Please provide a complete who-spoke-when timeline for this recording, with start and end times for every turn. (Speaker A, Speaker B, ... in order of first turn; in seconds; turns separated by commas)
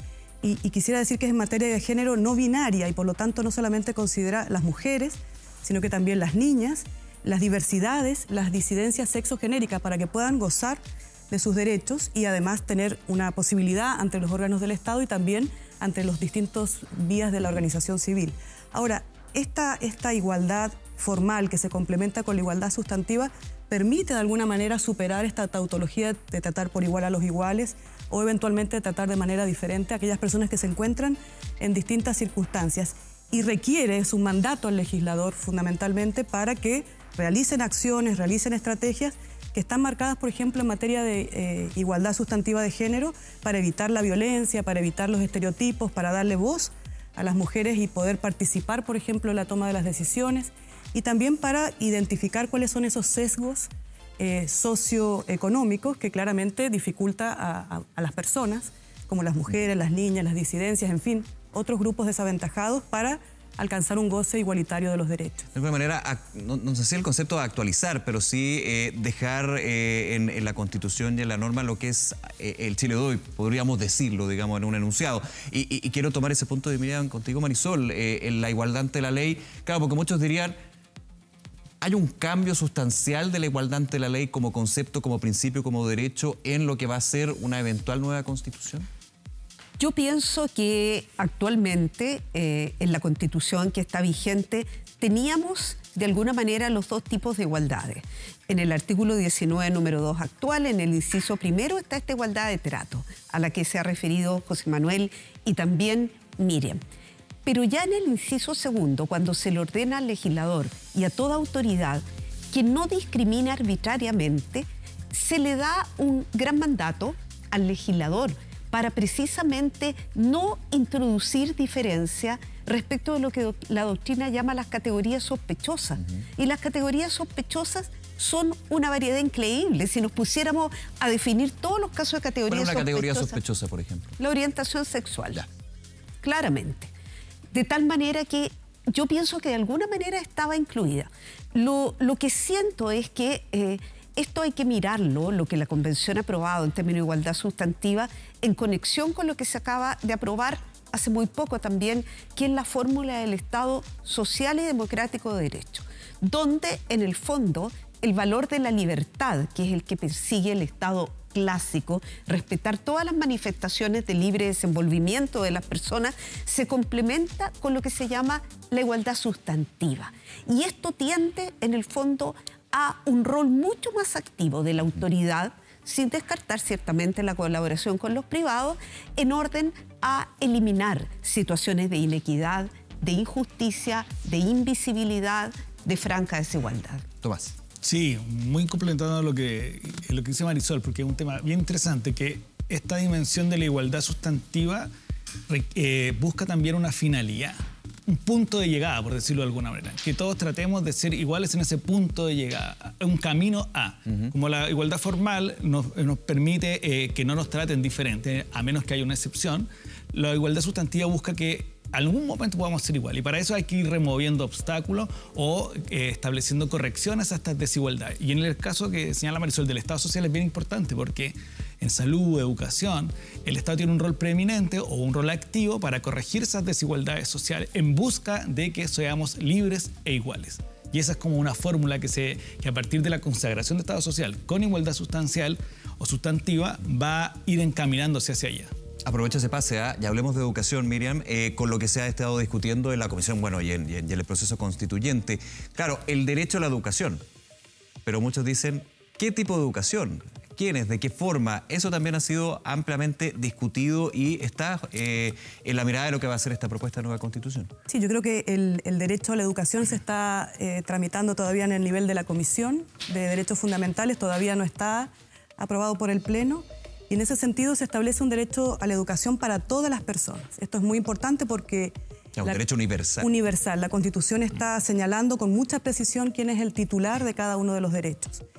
Speaker A: 0.4-65.5, Speaker B: 65.5-80.6, Speaker B: 81.8-88.9, Speaker C: 89.8-106.8, Speaker C: 107.5-133.4, Speaker B: 132.5-134.2, Speaker C: 134.2-135.4, Speaker C: 136.2-136.9, Speaker C: 137.5-187.1, Speaker B: 187.2-187.6, Speaker D: 187.8-194.9, Speaker D: 195.5-238.7, Speaker B: 239.1-247.2, Speaker B: 248.1-257.7, Speaker A: 257.9-272.6, Speaker B: 272.4-273.3, Speaker A: 273.2-278.4